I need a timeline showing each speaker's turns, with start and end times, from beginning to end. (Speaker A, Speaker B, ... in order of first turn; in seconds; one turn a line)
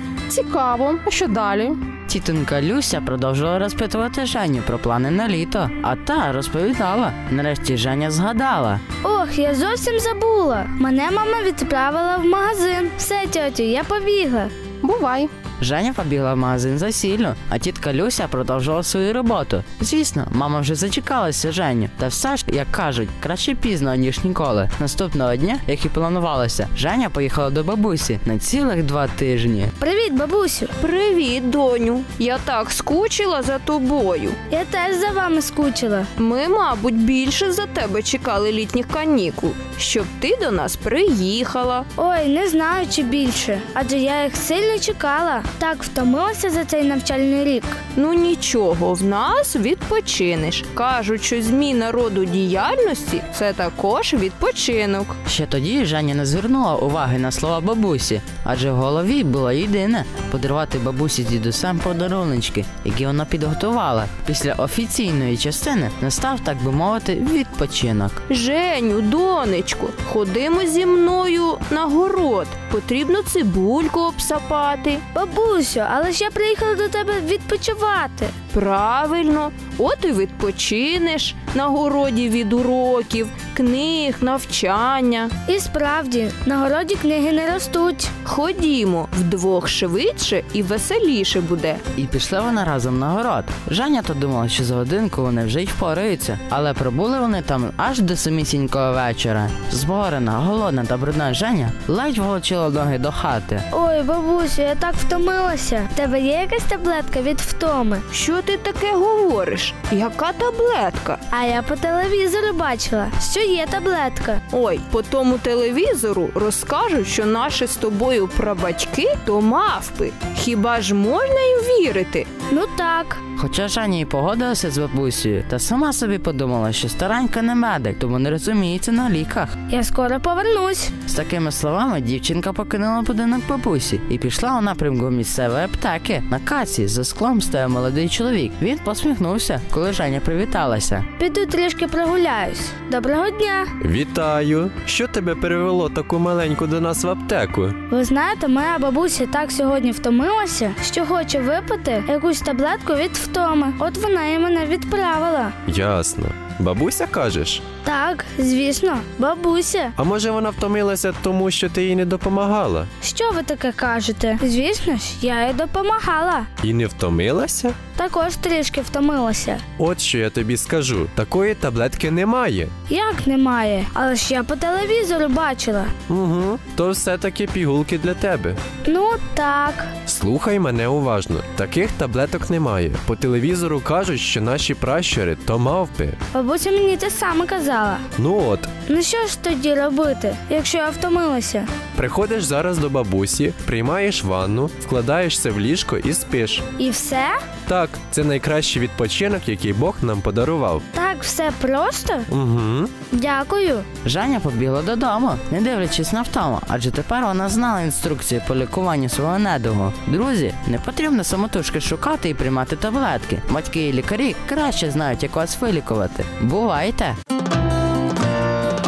Speaker A: 0.3-1.8
Speaker B: 2.1-8.8
Speaker C: 9.0-14.5
Speaker A: 14.8-15.3
Speaker B: 15.6-29.7
Speaker C: 29.8-30.7
Speaker D: 30.8-34.4
Speaker C: 34.5-36.1
Speaker D: 36.2-41.9
Speaker C: 42.0-47.8
Speaker D: 48.0-55.2
Speaker B: 55.3-68.2
Speaker D: 68.3-75.0
Speaker C: 75.1-78.3
Speaker D: 78.5-85.3
Speaker C: 85.5-88.1
Speaker D: 88.2-91.8
Speaker B: 92.0-103.7
Speaker C: 103.7-108.1
Speaker D: 108.1-111.2
Speaker C: 111.3-114.4
Speaker D: 114.5-122.3
Speaker C: 122.5-123.2
Speaker B: 123.4-129.5
Speaker C: 129.7-130.9
Speaker B: 131.1-141.1
Speaker C: 141.2-143.7
Speaker E: 143.8-147.8
Speaker C: 147.9-155.6
Speaker E: 155.7-157.6
Speaker C: 157.8-159.9
Speaker E: 160.0-162.9
Speaker C: 163.0-166.5
Speaker E: 166.6-167.8
Speaker C: 168.0-169.6
Speaker E: 169.8-172.7
Speaker C: 172.9-175.9
Speaker E: 176.1-178.6
Speaker C: 178.8-179.9
Speaker E: 180.1-186.2
Speaker C: 186.3-188.1
Speaker E: 188.2-188.7
Speaker C: 188.9-191.7
Speaker E: 192.0-196.6
Speaker C: 196.8-197.4
Speaker E: 197.7-200.8
Speaker C: 200.9-202.3
Speaker E: 202.3-202.9
Speaker C: 203.1-203.9
Speaker B: 204.0-217.2